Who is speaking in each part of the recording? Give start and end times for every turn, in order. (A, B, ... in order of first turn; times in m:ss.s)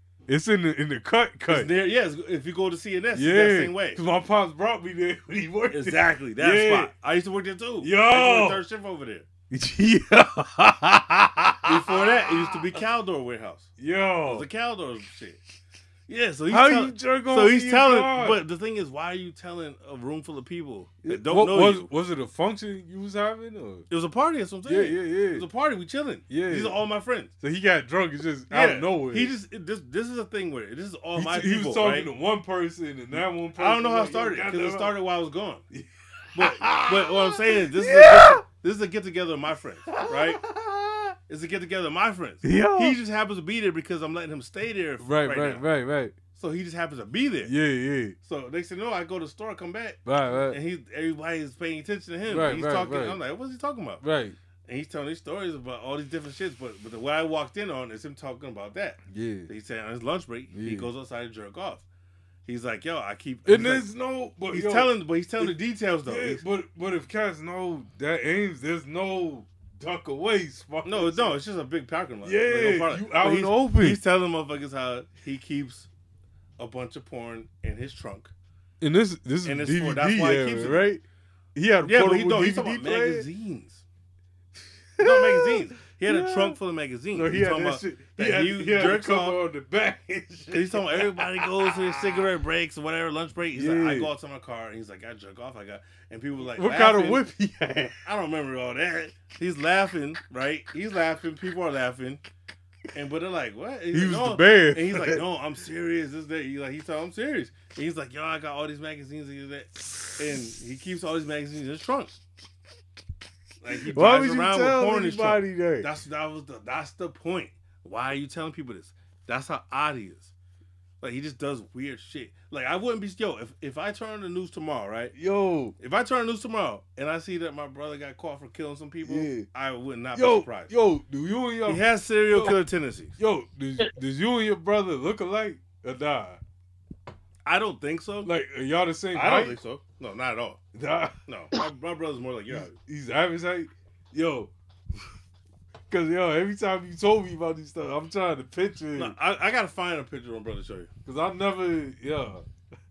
0:00.3-0:01.7 A
0:01.5-0:04.0 B
0:03.1-0:06.9 A
0:05.7-0:09.3 B
0:07.8-0:08.6 A
0:09.5-0:12.7 A
0:11.7-0:13.7 B
0:13.8-0:14.5 A
0:14.3-0:15.4 B
0:16.1-0:21.9 B
0:16.5-0:18.4 A
0:21.0-0:23.9 A
0:23.9-0:27.3 B
0:24.6-0:25.5 A
0:26.3-0:26.8 A
0:27.4-0:29.3 A
0:28.5-0:32.1 B
0:31.2-0:35.0 A
0:33.5-0:35.6 B
0:35.7-0:38.4 A
0:36.3-0:40.4 B
0:39.9-0:41.2 A
0:41.3-0:45.7 B
0:42.4-0:43.0 A
0:45.0-0:46.2 A
0:46.3-0:47.5 B
0:47.4-0:48.2 A
0:48.2-0:54.0 B
0:50.0-0:50.6 A
0:52.3-0:53.2 A
0:54.0-0:54.4 A
0:54.7-1:01.8 B
0:59.1-0:59.5 A
1:00.5-1:00.9 A
1:02.5-1:03.9 B
1:03.4-1:11.4 A
1:04.5-1:06.4 B
1:10.8-1:15.9 B
1:12.2-1:14.0 A
1:16.6-1:18.3 B
1:18.8-1:21.0 A
1:19.4-1:20.9 B
1:21.6-1:23.3 A
1:21.8-1:23.8 B
1:24.6-1:26.6 A
1:25.0-1:29.4 B
1:27.1-1:32.3 A
1:30.5-1:37.2 B
1:33.5-1:34.1 A
1:36.4-1:38.1 A
1:38.0-1:42.2 B
1:42.9-1:52.2 B
1:43.9-1:45.2 A
1:53.6-2:00.3 B
1:53.7-1:55.9 A
2:01.0-2:05.2 B
2:05.1-2:05.8 A
2:05.8-2:10.7 B
2:09.0-2:09.5 A
2:10.2-2:12.6 A
2:11.7-2:13.2 B
2:13.2-2:16.4 A
2:17.5-2:18.3 B
2:18.2-2:19.6 A
2:19.1-2:20.6 B
2:20.7-2:21.2 A
2:21.3-2:22.8 B
2:22.5-2:25.1 A
2:25.9-2:29.2 A
2:29.0-2:30.9 B
2:31.1-2:32.4 A